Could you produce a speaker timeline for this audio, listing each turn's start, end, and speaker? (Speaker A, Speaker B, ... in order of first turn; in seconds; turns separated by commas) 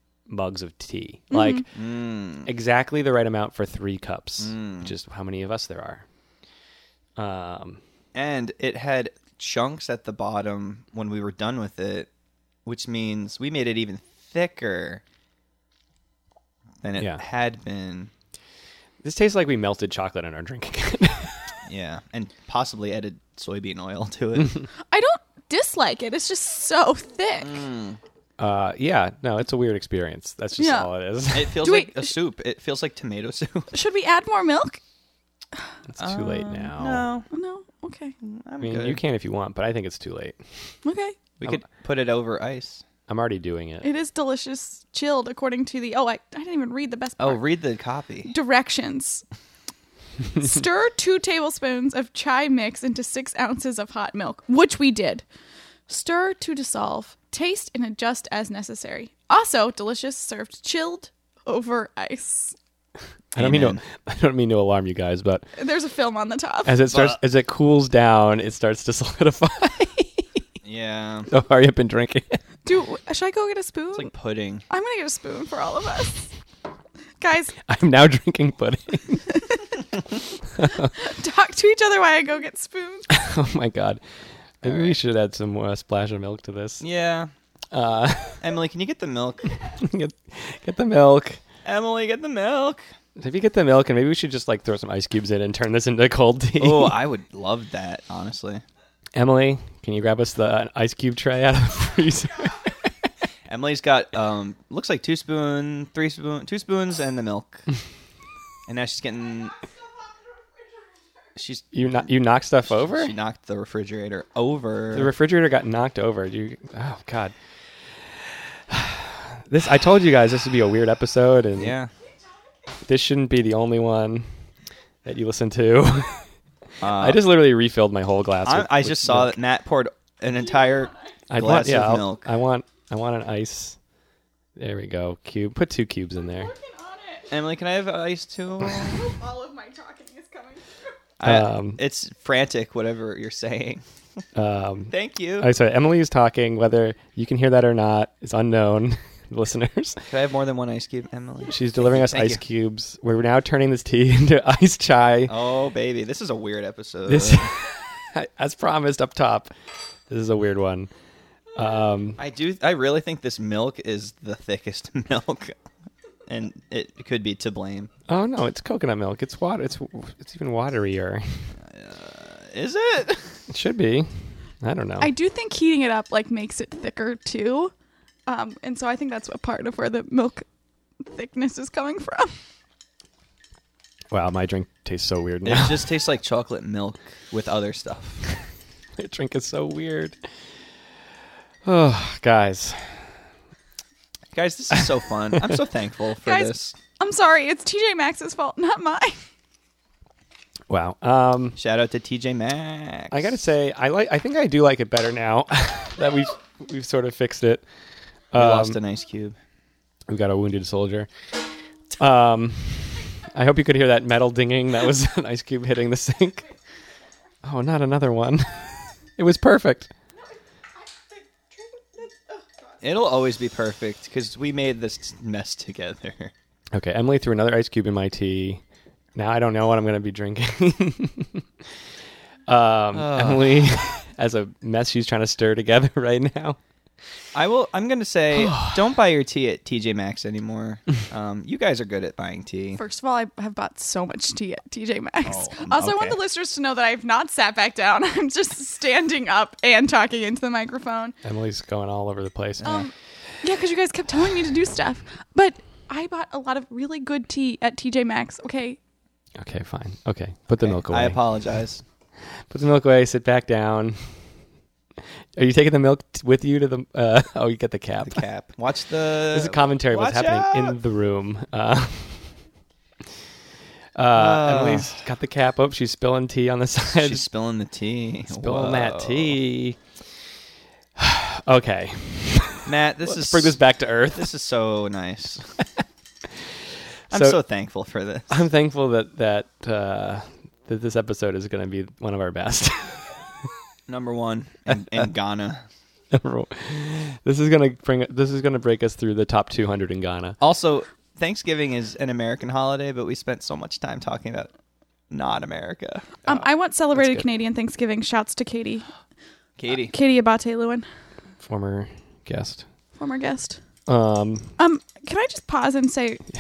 Speaker A: 0.3-1.7, Speaker B: 1.3-1.6, Speaker C: 1.7-2.5, Speaker A: 2.4-6.0, Speaker C: 4.4-4.9, Speaker A: 7.2-7.8, Speaker C: 8.1-12.1, Speaker C: 12.7-15.0, Speaker C: 16.8-18.1, Speaker A: 19.0-21.5, Speaker C: 21.6-24.6, Speaker B: 24.9-27.6, Speaker C: 27.4-28.0, Speaker A: 28.4-31.6, Speaker B: 30.6-30.9, Speaker C: 31.3-33.7, Speaker B: 31.6-32.1, Speaker B: 33.7-34.8, Speaker A: 35.9-37.1, Speaker C: 36.0-37.3, Speaker B: 37.3-38.1, Speaker C: 38.2-39.0, Speaker A: 38.6-40.8, Speaker B: 40.8-41.2, Speaker C: 41.4-42.8, Speaker A: 43.1-43.9, Speaker B: 43.8-47.4, Speaker C: 47.2-48.3, Speaker B: 48.3-49.2, Speaker B: 50.4-55.2, Speaker B: 55.9-62.5, Speaker C: 63.3-63.8, Speaker A: 63.3-65.5, Speaker B: 65.5-66.7, Speaker A: 66.6-70.4, Speaker C: 66.9-67.2, Speaker C: 70.6-71.3, Speaker A: 71.3-72.4, Speaker B: 72.6-74.1, Speaker C: 73.9-74.6, Speaker B: 74.7-76.3, Speaker B: 77.2-77.5, Speaker A: 77.7-79.4, Speaker A: 80.5-80.9, Speaker B: 81.0-83.1, Speaker A: 83.1-84.0, Speaker A: 84.6-86.8, Speaker C: 84.6-85.0, Speaker C: 86.8-87.3, Speaker A: 87.7-88.4, Speaker C: 88.4-89.5, Speaker A: 89.6-91.4, Speaker C: 91.6-92.8, Speaker A: 93.2-97.0, Speaker C: 96.6-98.6, Speaker A: 99.1-103.1, Speaker C: 103.5-107.7, Speaker C: 108.7-109.5, Speaker C: 111.3-111.7, Speaker A: 111.7-113.1, Speaker C: 112.8-115.1, Speaker A: 114.9-117.3, Speaker A: 117.9-121.8, Speaker C: 121.6-121.9, Speaker A: 122.8-124.3, Speaker A: 125.0-126.3, Speaker C: 126.8-127.2, Speaker A: 126.9-129.3, Speaker C: 128.4-132.3, Speaker A: 131.3-133.8, Speaker A: 134.6-136.5, Speaker B: 136.4-137.3, Speaker C: 137.3-139.1, Speaker B: 138.7-140.8, Speaker C: 141.2-143.8, Speaker A: 141.2-141.8, Speaker A: 144.3-150.0, Speaker C: 144.9-145.5, Speaker C: 150.1-152.4, Speaker A: 151.5-155.3, Speaker C: 155.3-157.5, Speaker A: 157.1-159.5, Speaker A: 160.1-160.9, Speaker A: 161.5-162.2, Speaker C: 162.2-165.5, Speaker C: 166.3-167.9, Speaker A: 168.1-171.5, Speaker C: 171.6-173.4, Speaker A: 173.5-175.1, Speaker B: 175.0-177.7, Speaker B: 178.3-180.4, Speaker B: 181.0-182.3, Speaker A: 184.1-185.9, Speaker C: 185.4-188.2, Speaker A: 189.0-190.2, Speaker A: 191.6-193.2, Speaker C: 194.3-196.8, Speaker B: 196.2-199.2, Speaker A: 200.7-201.6, Speaker C: 201.6-203.3, Speaker A: 203.1-207.6, Speaker A: 208.3-208.8, Speaker C: 208.3-209.3, Speaker A: 210.1-211.1, Speaker A: 212.0-216.5, Speaker A: 217.4-219.9, Speaker B: 221.1-222.4, Speaker C: 222.8-226.3, Speaker A: 226.7-228.6, Speaker A: 229.1-231.4, Speaker A: 232.5-236.6, Speaker C: 232.9-233.7, Speaker C: 237.3-242.8, Speaker A: 238.3-238.8, Speaker B: 242.8-251.2, Speaker C: 245.2-246.2, Speaker A: 251.2-252.8, Speaker B: 252.6-258.8, Speaker A: 259.4-261.2, Speaker C: 260.6-261.8, Speaker A: 262.5-264.2, Speaker A: 265.4-268.2, Speaker C: 268.0-270.8, Speaker A: 269.3-272.3, Speaker A: 273.9-277.2, Speaker C: 274.1-275.0, Speaker C: 276.9-279.4, Speaker A: 278.3-279.8, Speaker A: 281.0-284.3, Speaker C: 282.6-283.6, Speaker C: 284.1-285.5, Speaker A: 287.1-287.4, Speaker C: 287.1-288.4, Speaker A: 288.3-293.1, Speaker C: 293.9-295.6, Speaker A: 296.1-300.4, Speaker C: 300.4-304.5, Speaker C: 305.1-306.3, Speaker B: 306.2-308.9, Speaker A: 306.9-307.2, Speaker C: 309.6-309.9, Speaker B: 309.7-310.9, Speaker A: 311.4-312.6, Speaker B: 312.9-313.6, Speaker A: 313.9-314.6, Speaker B: 314.6-316.2